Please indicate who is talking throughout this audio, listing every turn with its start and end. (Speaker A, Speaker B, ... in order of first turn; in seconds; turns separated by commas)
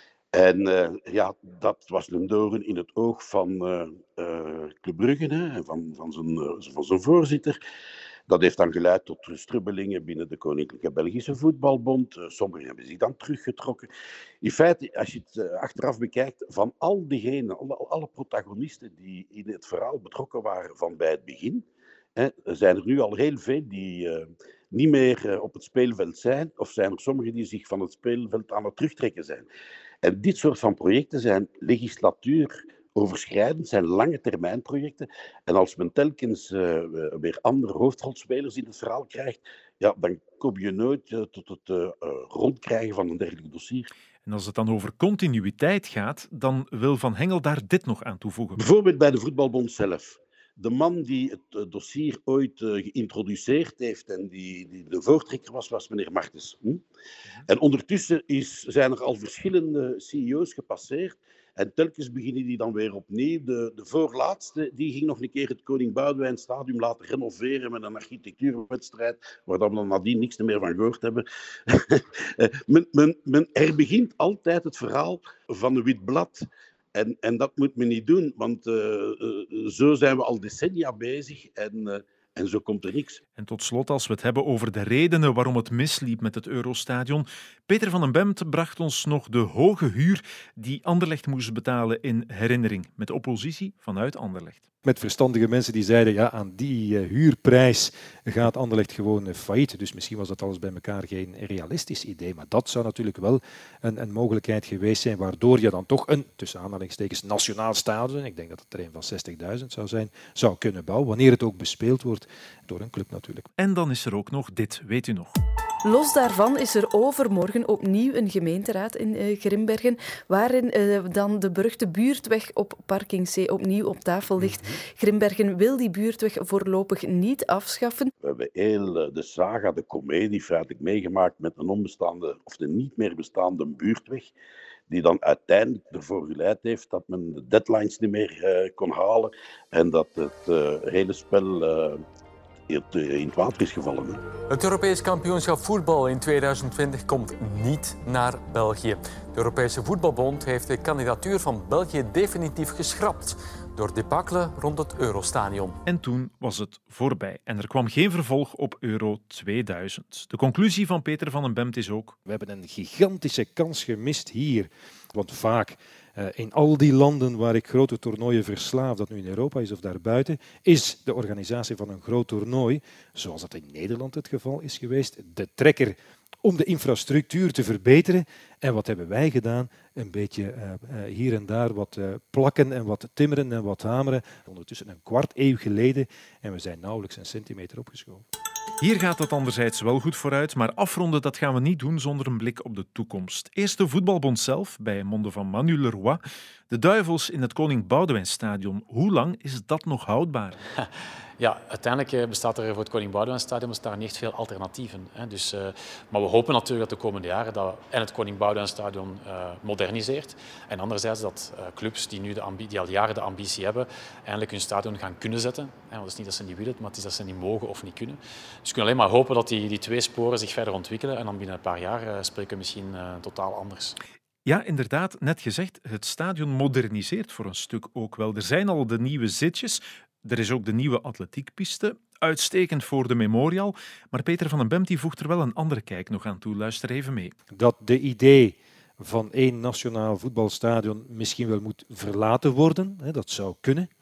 Speaker A: 0.3-7.6, Speaker A: 8.3-13.9, Speaker A: 14.4-21.6, Speaker A: 22.2-29.5, Speaker A: 30.0-43.9, Speaker B: 44.3-48.6, Speaker A: 48.6-56.8, Speaker A: 57.5-83.2, Speaker B: 83.4-94.6, Speaker C: 94.8-113.5, Speaker B: 113.6-115.4, Speaker D: 115.8-128.1, Speaker A: 128.2-134.3, Speaker A: 134.9-142.0, Speaker A: 142.7-144.2, Speaker E: 144.5-155.8, Speaker F: 155.2-155.4, Speaker B: 155.9-162.2, Speaker C: 162.3-188.2, Speaker B: 188.8-200.6, Speaker F: 200.8-224.0, Speaker B: 224.4-237.3, Speaker C: 237.5-243.9